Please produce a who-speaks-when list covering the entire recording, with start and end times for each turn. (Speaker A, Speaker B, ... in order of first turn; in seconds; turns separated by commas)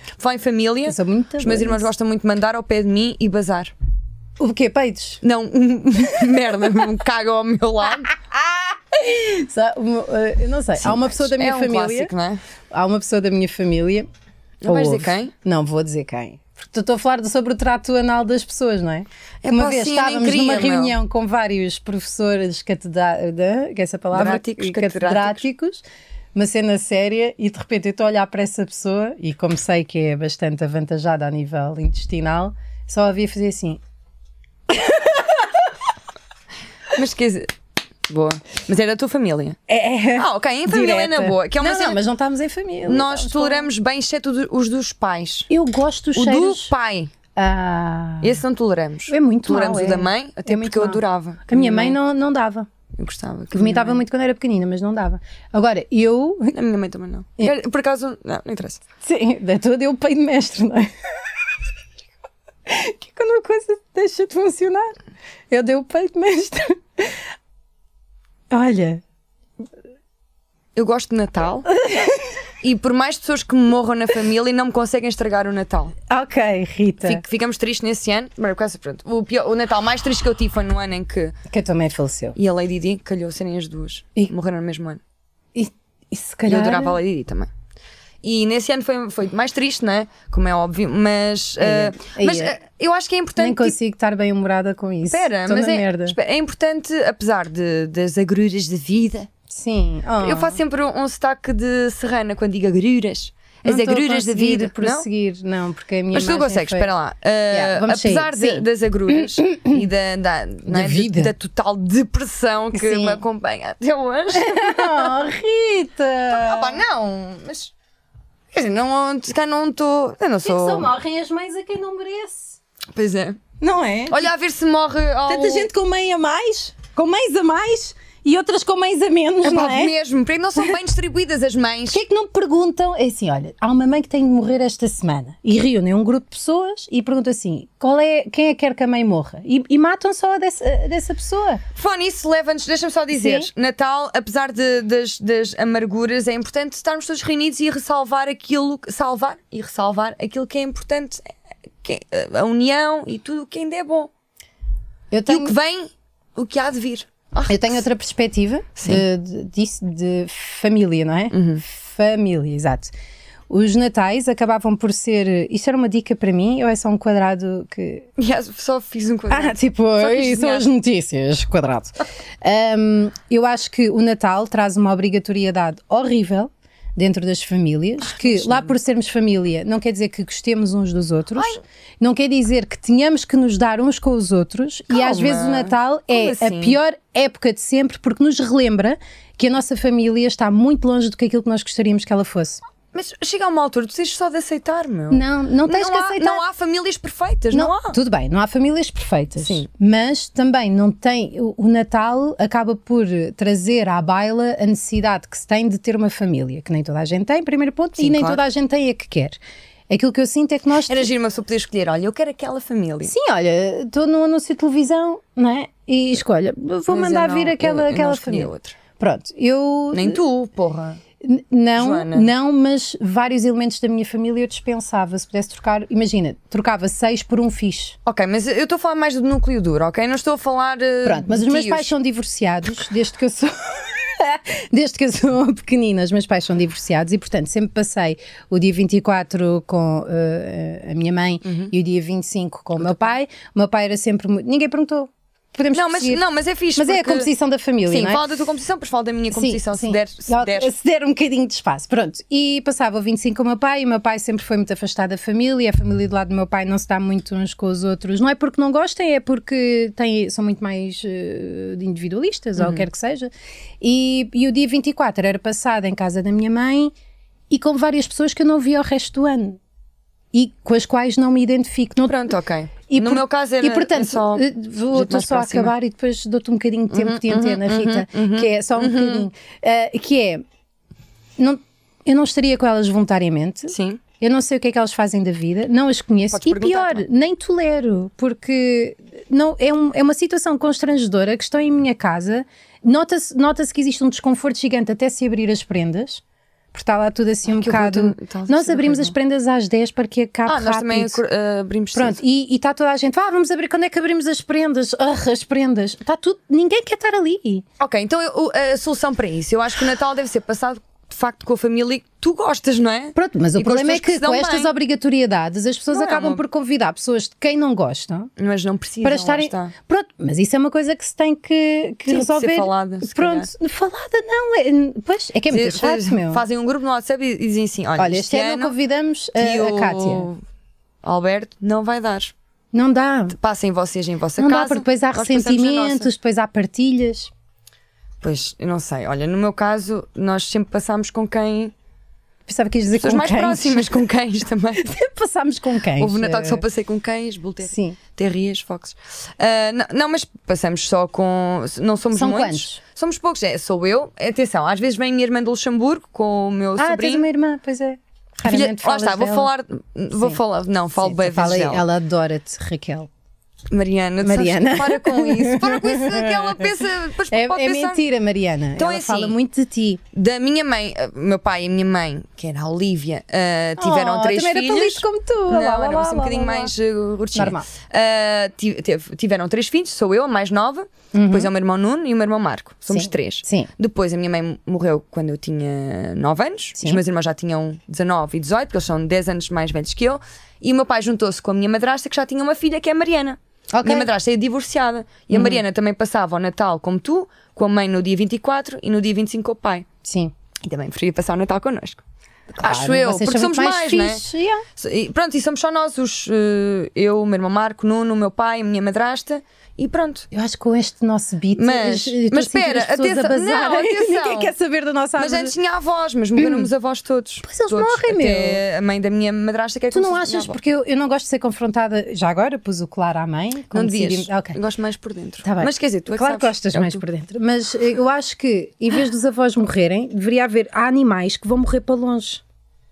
Speaker A: 0.2-3.7, Speaker B: 0.9-1.9, Speaker B: 4.4-5.2, Speaker A: 5.2-8.1, Speaker B: 8.3-12.1, Speaker A: 10.8-12.4, Speaker B: 12.7-14.1, Speaker A: 14.6-15.3, Speaker B: 14.7-33.8, Speaker A: 19.4-20.9, Speaker A: 24.1-25.4, Speaker B: 34.7-35.7, Speaker A: 36.9-37.5, Speaker A: 38.1-39.6, Speaker B: 39.7-43.7, Speaker A: 40.1-42.0, Speaker A: 42.9-45.5, Speaker B: 45.5-46.7, Speaker A: 46.1-47.1, Speaker B: 47.3-48.4, Speaker A: 48.2-52.0, Speaker B: 49.1-52.7, Speaker A: 52.9-54.0, Speaker B: 53.5-56.5, Speaker A: 56.5-58.8, Speaker B: 59.0-60.9, Speaker B: 62.6-65.0, Speaker B: 65.5-67.2, Speaker B: 68.5-69.0, Speaker A: 70.8-71.7, Speaker B: 71.8-72.3, Speaker A: 72.6-75.9, Speaker B: 76.1-77.2, Speaker A: 77.0-81.3, Speaker B: 81.5-82.3, Speaker A: 82.3-85.0, Speaker B: 85.5-87.0, Speaker A: 86.5-87.5, Speaker A: 88.2-93.7, Speaker B: 91.6-92.5, Speaker B: 93.4-96.2, Speaker A: 95.1-99.3, Speaker B: 99.5-100.6, Speaker A: 100.2-105.0, Speaker B: 103.6-106.9, Speaker A: 106.1-115.2, Speaker B: 107.5-109.8, Speaker B: 110.7-111.3, Speaker B: 112.7-113.2, Speaker B: 114.3-116.8, Speaker A: 116.3-117.7, Speaker A: 118.5-120.9, Speaker B: 120.4-122.6, Speaker A: 122.9-123.4, Speaker B: 123.6-124.3, Speaker A: 124.1-125.7, Speaker B: 125.3-129.9, Speaker A: 129.4-132.0, Speaker B: 131.9-141.6, Speaker A: 141.7-154.1, Speaker B: 143.1-143.5, Speaker B: 155.1-155.5, Speaker A: 155.3-157.8, Speaker B: 157.5-162.9, Speaker A: 158.8-159.0, Speaker A: 161.3-161.6, Speaker B: 163.5-168.1, Speaker A: 168.2-170.7, Speaker B: 169.3-192.6, Speaker A: 178.0-178.8, Speaker A: 184.9-186.8, Speaker A: 192.9-197.9, Speaker B: 195.1-196.4, Speaker B: 197.5-211.1, Speaker A: 199.4-199.7, Speaker A: 208.0-208.4, Speaker A: 210.9-213.1, Speaker B: 213.1-220.2, Speaker A: 216.9-218.8, Speaker A: 219.9-221.0, Speaker B: 221.2-228.0, Speaker A: 221.8-222.3, Speaker A: 228.0-231.9, Speaker B: 231.0-246.2, Speaker A: 241.4-241.7, Speaker A: 242.8-243.1, Speaker A: 245.7-247.3, Speaker B: 246.8-248.2, Speaker A: 247.9-250.7, Speaker B: 249.3-266.9, Speaker A: 262.6-262.9, Speaker B: 267.5-269.6, Speaker B: 270.3-272.3, Speaker A: 272.0-275.7, Speaker B: 272.9-280.4, Speaker A: 276.9-279.3, Speaker B: 281.4-296.2, Speaker A: 283.7-284.0, Speaker A: 286.3-287.1, Speaker B: 296.7-301.2, Speaker A: 297.4-299.1, Speaker A: 300.4-302.2, Speaker B: 301.9-307.6, Speaker A: 307.8-314.7, Speaker B: 313.1-318.3, Speaker A: 315.9-316.4, Speaker A: 318.4-319.7, Speaker B: 319.0-326.4, Speaker A: 322.1-323.5, Speaker A: 325.5-328.7, Speaker B: 328.0-330.3, Speaker A: 329.4-330.4, Speaker A: 331.0-332.3, Speaker B: 332.7-333.4, Speaker A: 333.3-336.1, Speaker B: 334.4-337.3, Speaker A: 338.2-341.7, Speaker B: 342.4-343.9, Speaker A: 342.9-344.9, Speaker B: 344.8-346.6, Speaker A: 346.0-357.3, Speaker B: 347.6-348.0, Speaker B: 352.1-352.8, Speaker B: 356.8-359.5, Speaker A: 358.4-361.8, Speaker B: 361.0-363.1, Speaker A: 363.7-368.0, Speaker B: 364.2-366.7, Speaker B: 367.3-370.0, Speaker A: 368.8-369.4, Speaker A: 370.1-399.9, Speaker B: 373.8-376.7, Speaker B: 377.3-377.7, Speaker B: 381.1-381.5, Speaker B: 382.9-383.7, Speaker B: 393.7-394.1, Speaker B: 395.3-395.6, Speaker B: 400.0-400.3, Speaker A: 400.6-402.0, Speaker A: 402.6-404.2, Speaker B: 402.6-404.6, Speaker A: 404.8-410.3, Speaker B: 410.3-415.5, Speaker A: 411.5-414.5, Speaker A: 415.1-420.6, Speaker B: 416.4-416.7, Speaker B: 417.4-418.6, Speaker B: 419.9-424.6, Speaker A: 423.7-427.0, Speaker B: 425.4-432.4